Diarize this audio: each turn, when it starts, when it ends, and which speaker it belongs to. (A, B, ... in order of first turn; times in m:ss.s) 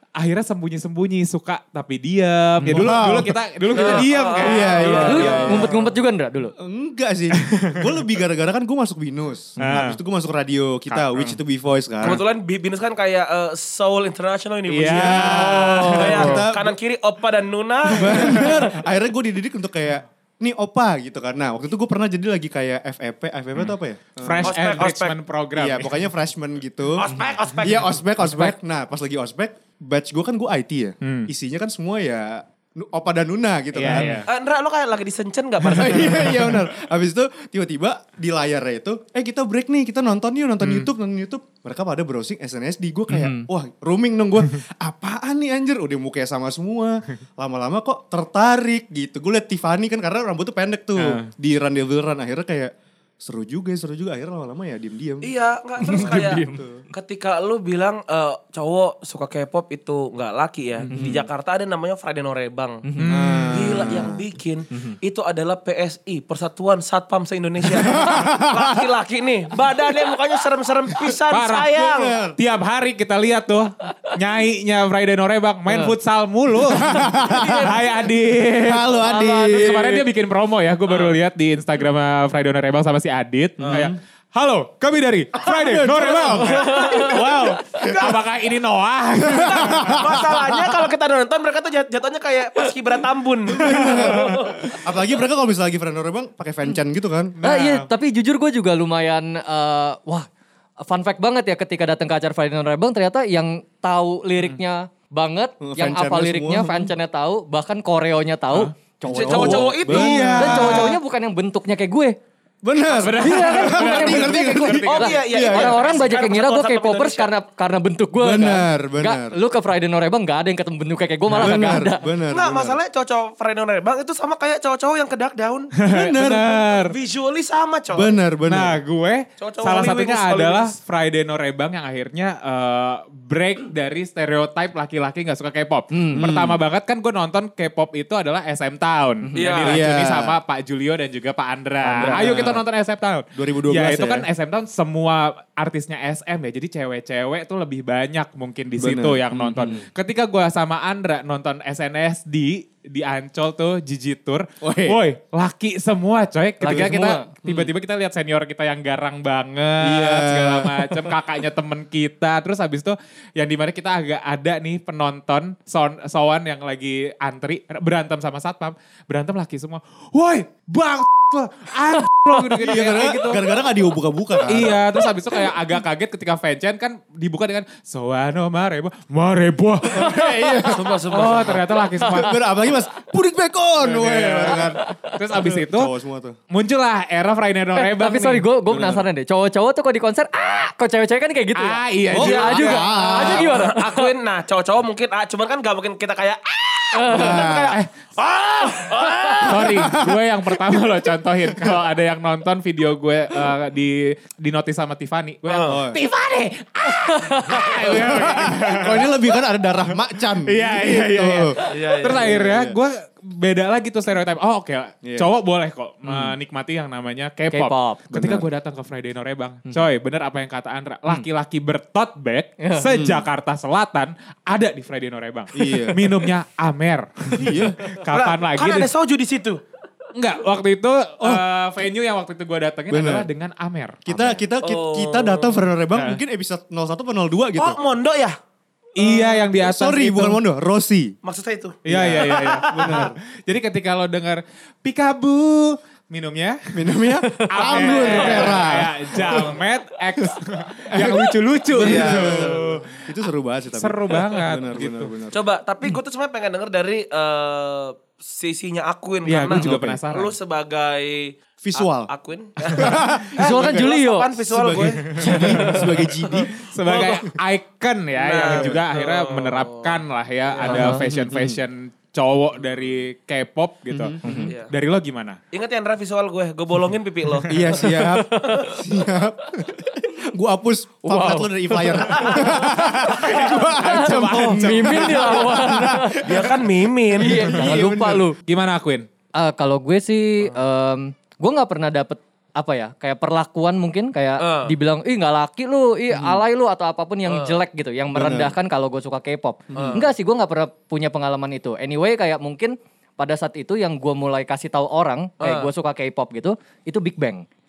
0:00.2-0:05.6 A
0:02.6-0:02.9 B
0:02.7-0:05.8 C
0:03.7-0:05.8 D
0:05.0-0:06.5 B
0:06.6-0:12.2 C
0:07.4-0:07.9 A
0:09.6-0:10.0 A
0:10.9-0:11.4 A
0:12.0-0:18.6 D
0:14.7-0:16.3 A
0:14.9-0:16.8 C
0:15.3-0:16.4 B
0:17.9-0:24.6 C
0:23.6-0:26.0 A
0:24.4-0:25.2 D
0:25.6-0:34.2 C
0:27.0-0:27.9 D
0:28.2-0:28.5 B
0:31.0-0:31.3 A
0:33.7-0:34.3 A
0:34.2-0:36.2 D
0:35.8-0:56.8 C
0:35.9-0:36.5 A
0:40.6-0:40.9 A
0:43.1-0:43.5 B
0:51.0-0:51.3 A
0:55.2-1:02.8 D
0:55.8-0:56.6 B
1:00.8-1:01.1 C
1:00.9-1:01.2 B
1:02.9-1:03.1 B
1:03.0-1:03.9 A
1:03.0-1:04.2 C
1:03.5-1:12.2 D
1:03.8-1:04.1 B
1:07.8-1:08.8 C
1:11.3-1:11.7 A
1:11.7-1:12.4 C
1:12.4-1:30.2 A
1:15.7-1:15.9 B
1:16.7-1:17.8 C
1:18.6-1:20.0 C
1:19.0-1:20.0 B
1:20.9-1:21.2 D
1:23.6-1:23.9 D
1:23.7-1:24.0 C
1:25.4-1:28.1 C
1:26.5-1:28.2 D
1:26.6-1:27.0 B
1:29.2-1:30.9 C
1:29.3-1:34.6 D
1:33.5-1:37.4 C
1:33.7-1:34.3 A
1:37.4-1:37.9 A
1:37.4-1:40.3 B
1:40.8-1:52.2 B
1:45.6-1:46.9 C
1:49.0-1:51.0 C
1:49.1-1:50.4 D
1:50.0-1:51.0 A
1:52.6-1:55.8 C
1:52.9-1:55.2 A
1:53.1-2:02.1 B
1:54.8-1:57.3 D
1:58.2-1:59.4 C
2:01.3-2:02.8 C
2:02.2-2:05.7 D
2:05.8-2:06.9 A
2:05.9-2:06.6 C
2:06.8-2:08.1 D
2:07.9-2:08.8 C
2:08.5-2:53.5 A
2:09.4-2:10.7 D
2:15.9-2:16.3 B
2:16.2-2:16.6 C
2:19.2-2:19.5 B
2:19.4-2:19.8 D
2:19.6-2:20.4 C
2:21.8-2:22.5 B
2:22.0-2:22.6 C
2:23.3-2:24.3 C
2:28.8-2:29.8 C
2:29.3-2:29.8 B
2:34.6-2:35.0 C
2:36.6-2:37.3 B
2:36.6-2:37.7 C
2:39.8-2:41.1 C
2:52.5-2:54.8 C
2:54.5-3:00.3 A
2:59.8-3:01.3 C
3:00.1-3:00.8 B
3:00.7-3:01.7 D
3:01.1-3:02.4 A
3:02.0-3:06.4 C
3:03.8-3:05.9 A
3:04.6-3:05.1 B
3:06.5-3:08.5 A
3:07.7-3:14.1 B
3:08.7-3:09.1 C
3:11.6-3:12.9 A
3:12.1-3:13.6 C
3:12.2-3:19.6 D
3:16.9-3:17.7 B
3:17.1-3:17.8 C
3:19.1-3:19.6 B
3:19.4-3:29.1 A
3:19.7-3:20.2 C
3:25.5-3:25.8 D
3:25.7-3:26.0 C
3:27.0-3:27.9 B
3:27.9-3:32.8 C
3:30.4-3:48.9 A
3:31.7-3:32.2 D
3:35.0-3:35.3 C
3:36.0-3:36.4 B
3:37.5-3:38.0 B
3:38.1-3:38.5 C
3:42.9-3:43.3 C
3:45.6-3:46.0 C
3:47.4-3:47.8 C
3:48.1-3:49.6 D
3:50.2-3:54.4 A
3:52.9-3:53.3 C
3:54.0-3:57.8 C
3:54.6-3:55.6 D
3:55.9-3:56.2 A
3:57.6-3:58.3 D
3:59.0-4:00.4 A
3:59.0-4:01.2 C
4:01.2-4:02.9 D
4:01.8-4:06.6 A
4:01.9-4:03.2 C
4:06.7-4:09.5 C
4:07.4-4:08.7 B
4:07.5-4:13.0 A
4:07.9-4:08.2 D
4:10.9-4:15.4 C
4:11.8-4:12.6 D
4:13.7-4:15.2 A
4:15.3-4:25.1 D
4:19.2-4:20.3 A
4:19.5-4:20.0 C
4:19.7-4:20.0 B
4:21.6-4:22.1 C
4:22.7-4:26.5 C
4:23.4-4:24.3 B
4:25.2-4:25.8 A
4:25.3-4:25.9 B
4:26.3-4:27.2 D
4:26.6-4:35.4 A
4:28.2-4:30.0 D
4:28.4-4:28.8 C
4:30.5-4:30.8 D
4:30.6-4:31.6 C
4:30.7-4:31.0 B
4:33.9-4:34.5 C
4:34.2-4:34.5 B
4:34.5-4:34.7 D
4:35.5-4:37.6 D
4:37.5-4:48.3 C
4:37.8-4:38.7 B
4:41.1-4:46.5 B
4:42.1-4:42.5 D
4:43.1-4:45.6 A
4:46.2-4:47.4 D
4:47.2-4:48.4 B
4:48.5-4:49.1 A
4:49.4-5:07.5 B
4:54.4-4:54.8 D
4:56.1-4:56.4 C
4:57.3-4:57.6 D
4:58.1-4:58.5 C
4:59.7-5:00.1 C
4:59.7-5:00.1 D
5:05.4-5:05.7 D